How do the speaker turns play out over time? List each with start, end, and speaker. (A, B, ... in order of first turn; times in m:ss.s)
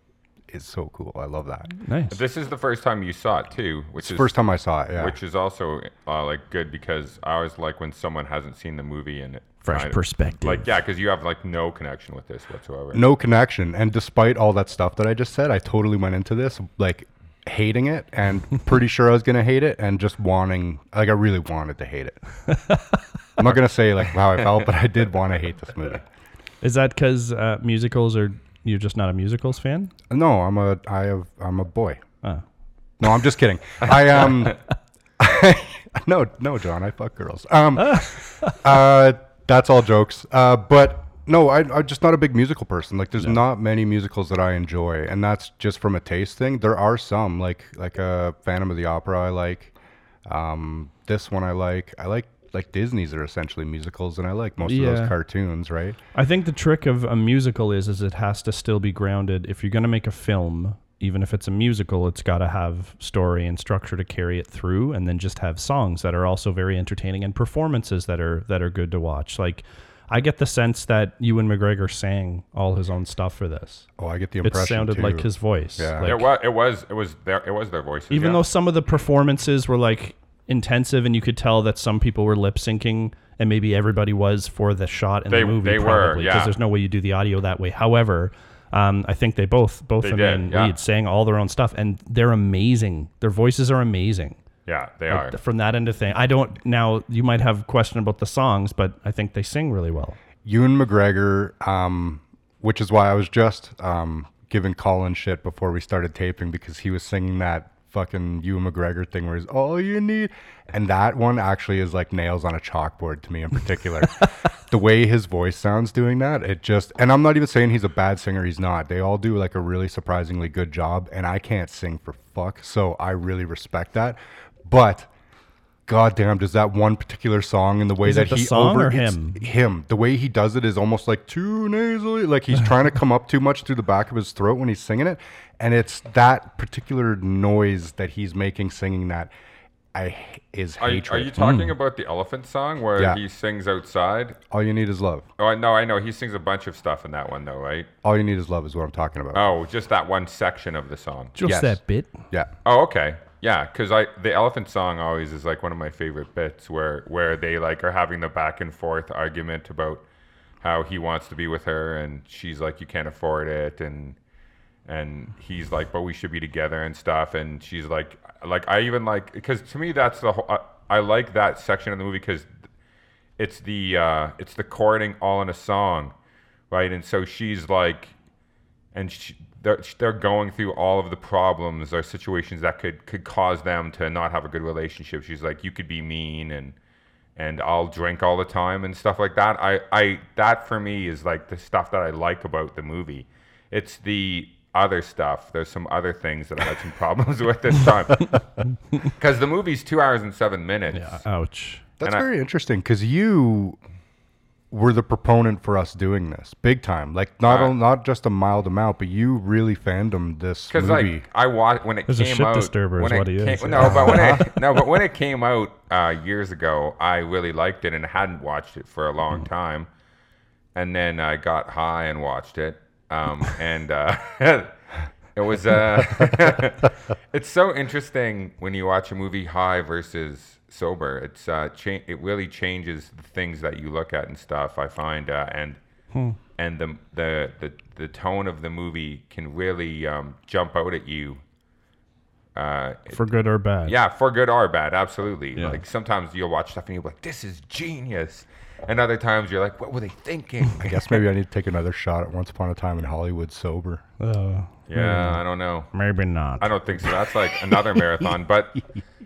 0:00.5-0:01.7 A
0:01.8-0:02.2 B
0:02.1-0:13.0 C
0:04.0-0:05.2 A
0:09.6-0:10.7 B
0:12.9-0:22.2 A
0:22.5-0:23.0 B
0:23.4-0:26.0 A
0:26.6-0:29.9 B
0:30.1-0:32.0 A
0:33.0-0:34.6 A
0:35.2-0:49.7 A
0:37.8-0:38.6 B
0:50.2-0:56.0 A
0:54.6-0:55.2 B
0:56.1-1:13.9 B
1:14.0-1:16.1 A
1:14.4-1:16.3 B
1:16.0-1:18.4 C
1:18.1-1:34.4 B
1:25.3-1:26.6 C
1:30.0-1:30.7 C
1:34.7-1:35.4 C
1:35.1-1:40.2 B
1:40.4-2:05.1 A
2:05.9-2:19.3 A
2:08.0-2:09.4 B
2:19.9-2:21.4 A
2:20.8-2:24.4 C
2:21.4-2:21.7 B
2:24.5-2:25.2 A
2:25.4-2:27.9 C
2:28.0-2:29.5 A
2:29.3-2:31.3 C
2:31.3-2:32.2 B
2:31.4-2:31.8 A
2:32.6-2:40.0 C
2:40.6-2:44.2 C
2:44.9-2:52.5 C
2:53.4-2:56.1 C
2:56.7-2:58.1 C
2:58.9-3:06.7 C
3:07.4-3:21.2 C
3:20.9-3:21.8 B
3:22.0-3:23.8 A
3:24.7-3:31.2 A
3:27.4-3:27.8 C
3:30.7-3:39.9 C
3:32.1-3:34.3 B
3:33.8-3:34.6 A
3:40.7-3:44.7 C
3:45.3-3:55.8 C
3:56.6-4:01.4 C
4:02.5-4:03.2 C
4:03.1-4:03.9 B
4:03.8-4:11.2 C
4:05.6-4:05.8 B
4:10.8-4:14.0 A
4:14.2-4:16.8 B
4:14.9-4:15.9 C
4:16.6-4:18.8 C